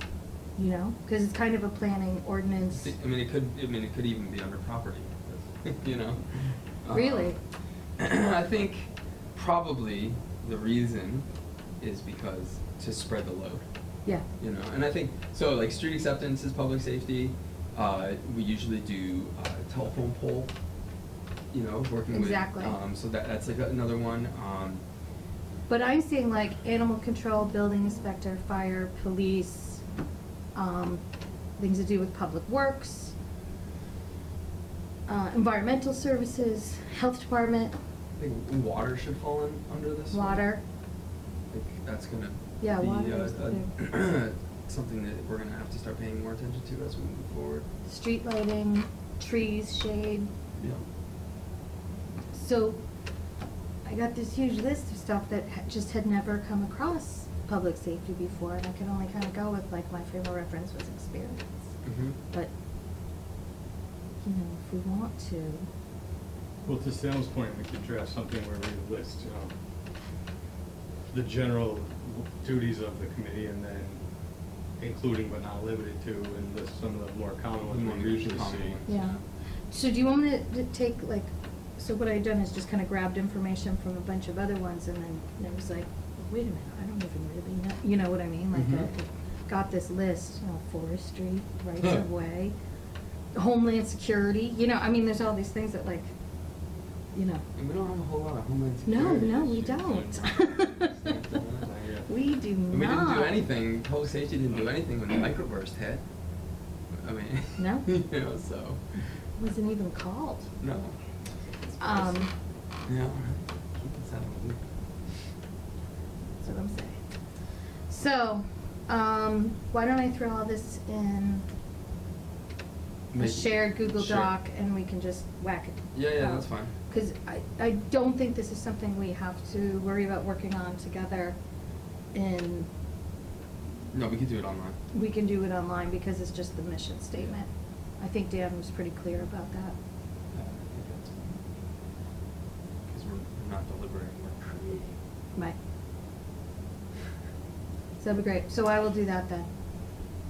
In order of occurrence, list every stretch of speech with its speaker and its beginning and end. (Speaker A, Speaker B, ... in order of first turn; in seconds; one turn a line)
Speaker A: 0.6-2.9
Speaker B: 2.8-7.3
Speaker A: 6.9-7.4
Speaker B: 8.0-11.3
Speaker B: 11.8-13.7
Speaker B: 14.4-20.5
Speaker B: 21.5-24.8
Speaker A: 22.1-22.8
Speaker A: 25.7-29.8
Speaker A: 30.6-31.0
Speaker A: 31.6-33.1
Speaker A: 35.1-37.8
Speaker B: 38.2-40.5
Speaker A: 40.1-40.6
Speaker B: 41.5-47.7
Speaker A: 42.6-43.7
Speaker A: 47.9-50.3
Speaker B: 50.6-50.8
Speaker A: 52.3-52.8
Speaker A: 53.9-61.5
Speaker B: 61.8-62.2
Speaker A: 64.2-65.7
Speaker C: 66.7-69.5
Speaker C: 71.1-74.0
Speaker C: 74.8-78.8
Speaker B: 77.7-79.2
Speaker A: 78.9-79.2
Speaker A: 79.7-92.5
Speaker B: 88.5-88.9
Speaker A: 93.3-96.1
Speaker A: 97.2-97.5
Speaker B: 97.6-101.7
Speaker A: 98.8-101.1
Speaker C: 101.6-102.1
Speaker A: 102.1-103.4
Speaker B: 102.7-106.0
Speaker B: 107.0-109.0
Speaker A: 107.6-107.8
Speaker A: 109.4-110.5
Speaker B: 110.6-111.0
Speaker B: 111.8-112.1
Speaker A: 111.8-112.3
Speaker B: 112.9-114.6
Speaker A: 116.4-117.0
Speaker A: 117.9-121.5
Speaker B: 123.1-124.3
Speaker A: 123.2-131.4
Speaker B: 125.9-126.7
Speaker A: 132.1-132.7
Speaker B: 133.9-134.8
Speaker A: 134.9-139.8
Speaker B: 140.3-141.5
Speaker B: 142.9-144.9
Speaker A: 148.0-149.5